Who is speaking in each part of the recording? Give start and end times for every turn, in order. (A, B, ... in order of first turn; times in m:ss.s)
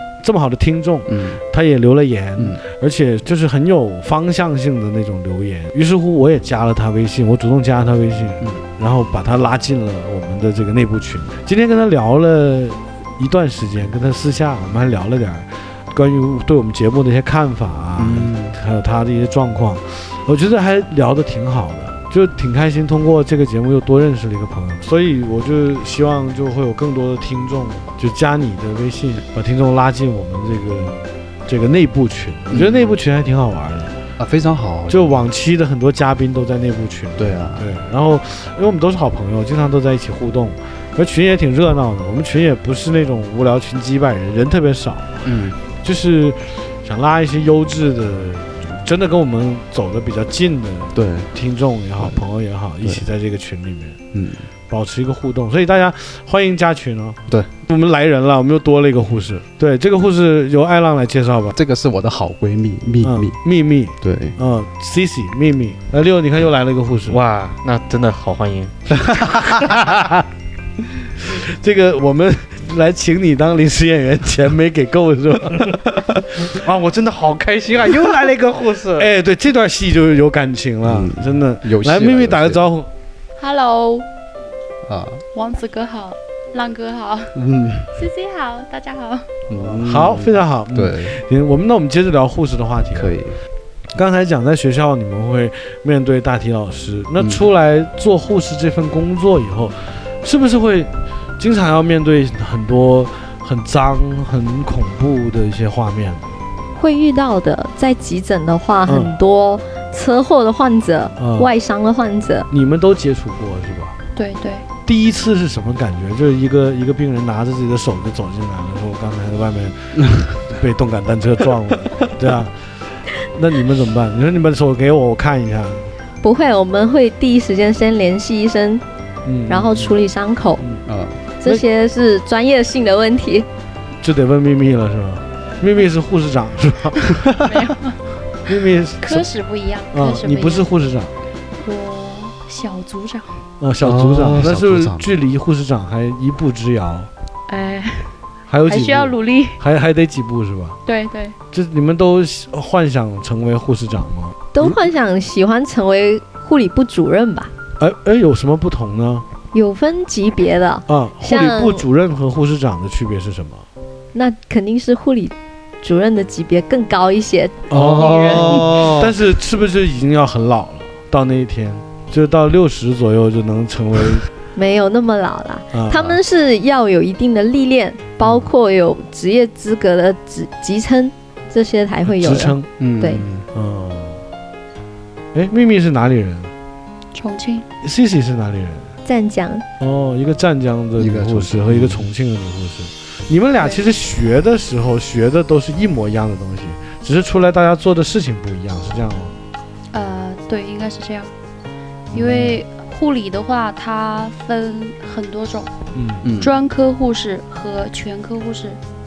0:00.2-0:34.0 A
0:01.1-0:01.4 B
0:18.0-0:18.6 B
0:32.5-0:33.0 B
0:34.2-0:35.2 B
0:34.9-0:45.2 A
0:37.2-0:37.6 B
0:45.2-0:45.6 B
0:45.8-0:54.0 A
0:50.9-0:51.3 B
0:54.1-0:54.5 B
0:54.7-1:01.6 A
1:01.5-1:03.4 B
1:03.0-1:07.2 A
1:04.0-1:04.4 B
1:07.1-1:09.5 C
1:09.0-1:09.5 B
1:11.2-1:16.0 A
1:16.4-1:19.1 C
1:19.0-1:22.9 A
1:20.8-1:22.6 B
1:23.4-1:24.1 D
1:24.8-1:25.2 B
1:25.3-1:27.3 D
1:27.3-1:27.9 B
1:28.0-1:29.3 D
1:29.5-1:31.2 B
1:29.5-1:33.2 A
1:32.9-1:33.4 B
1:33.9-1:46.3 A
1:46.8-1:52.5 E
1:48.8-1:49.1 A
1:51.2-1:51.5 A
1:52.5-1:54.0 A
1:54.1-1:54.6 D
1:54.8-2:02.5 A
2:03.1-2:05.9 A
2:06.2-2:08.8 E
2:09.2-2:10.0 A
2:09.5-2:10.6 E
2:10.8-2:11.2 B
2:11.4-2:13.5 E
2:14.0-2:17.4 A
2:17.4-2:18.0 D
2:18.4-2:19.3 A
2:19.0-2:20.7 D
2:19.9-2:21.1 A
2:21.6-2:23.4 D
2:23.6-2:27.1 A
2:23.8-2:25.1 B
2:27.5-2:29.6 D
2:28.5-2:30.8 A
2:30.8-2:31.4 D
2:31.5-2:34.4 A
2:34.5-2:37.5 E
2:37.8-2:39.2 A
2:39.5-2:41.8 E
2:40.9-2:43.6 A
2:44.1-2:47.7 E
2:47.7-2:54.3 A
2:47.7-2:48.8 C
2:47.7-2:49.1 B
2:54.5-3:03.2 E
2:55.7-2:56.2 A
3:02.1-3:02.7 A
3:02.8-3:03.5 B
3:03.5-3:04.2 A
3:05.3-3:06.5 A
3:07.1-3:07.6 D
3:07.8-3:08.9 A
3:09.0-3:09.6 E
3:09.8-3:19.3 A
3:11.0-3:12.1 B
3:13.6-3:13.8 D
3:19.9-3:21.3 D
3:22.1-3:25.7 D
3:22.1-3:22.6 A
3:25.9-3:26.3 A
3:26.2-3:26.6 B
3:26.4-3:28.8 D